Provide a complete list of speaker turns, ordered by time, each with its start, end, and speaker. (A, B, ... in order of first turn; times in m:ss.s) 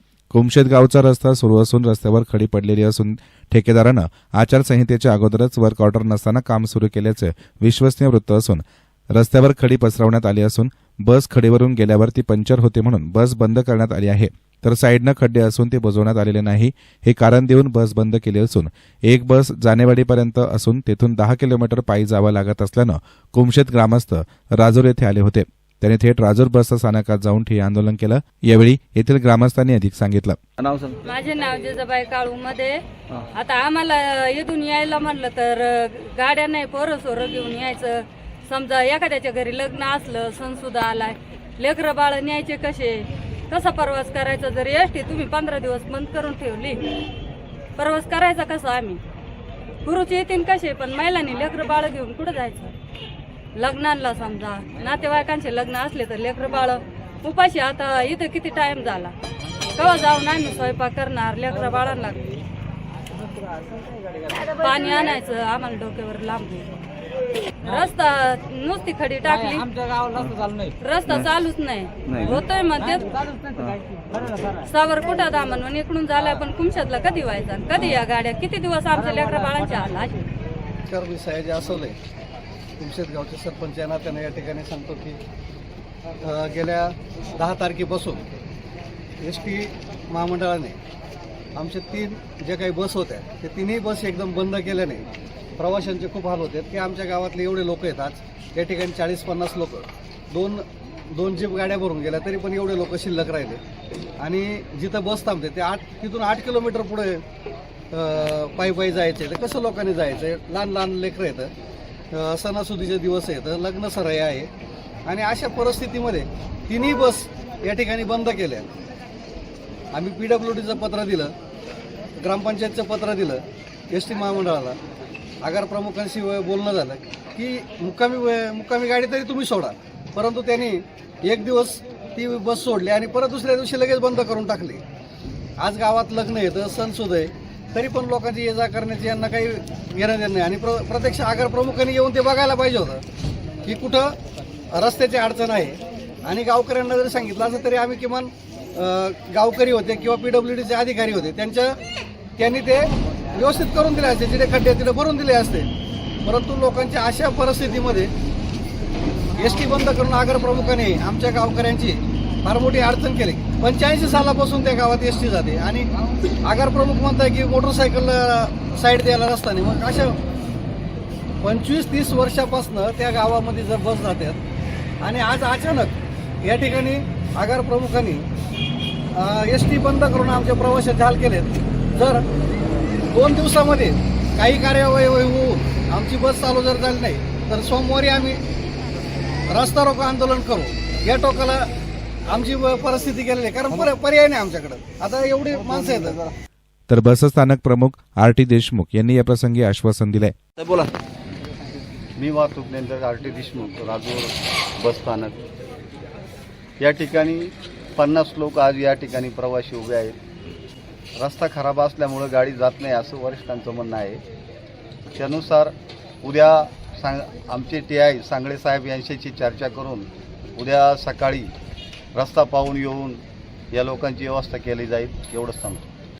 0:00.3-0:30.4 A
0:30.6-0:31.0 B
0:31.0-0:32.8 C
0:33.3-0:46.8 C
0:47.8-0:49.0 C
0:49.8-0:52.7 C
0:53.6-0:59.1 C
0:59.8-1:02.2 C
1:04.4-1:06.7 C
1:07.6-1:09.8 C
1:10.1-1:10.5 B
1:10.8-1:13.1 C
1:12.1-1:12.4 B
1:13.5-1:14.5 B
1:14.6-1:20.2 C
1:20.9-1:22.0 D
1:22.8-1:25.2 D
1:26.2-1:28.2 D
1:29.2-1:30.8 D
1:31.6-1:35.1 D
1:35.6-1:43.6 D
1:44.2-1:47.2 D
1:47.9-1:51.5 D
1:52.1-1:54.5 D
1:55.1-1:58.7 D
1:59.9-2:01.3 D
2:02.2-2:04.8 D
2:05.4-2:14.8 D
2:15.6-2:23.0 D
2:23.6-2:24.2 D
2:24.7-2:31.8 D
2:32.4-2:35.7 D
2:36.2-2:38.1 D
2:39.3-2:45.9 D
2:46.4-2:50.2 D
2:51.4-2:54.4 D
2:55.0-2:58.2 D
2:59.2-3:02.2 D
3:03.1-3:08.4 D
3:09.5-3:11.7 D
3:12.3-3:16.3 D
3:16.9-3:20.4 A
3:20.6-3:20.9 B
3:22.2-3:25.4 E
3:26.8-3:30.2 E
3:31.2-3:34.2 E
3:35.2-3:41.5 E
3:42.2-3:45.8 E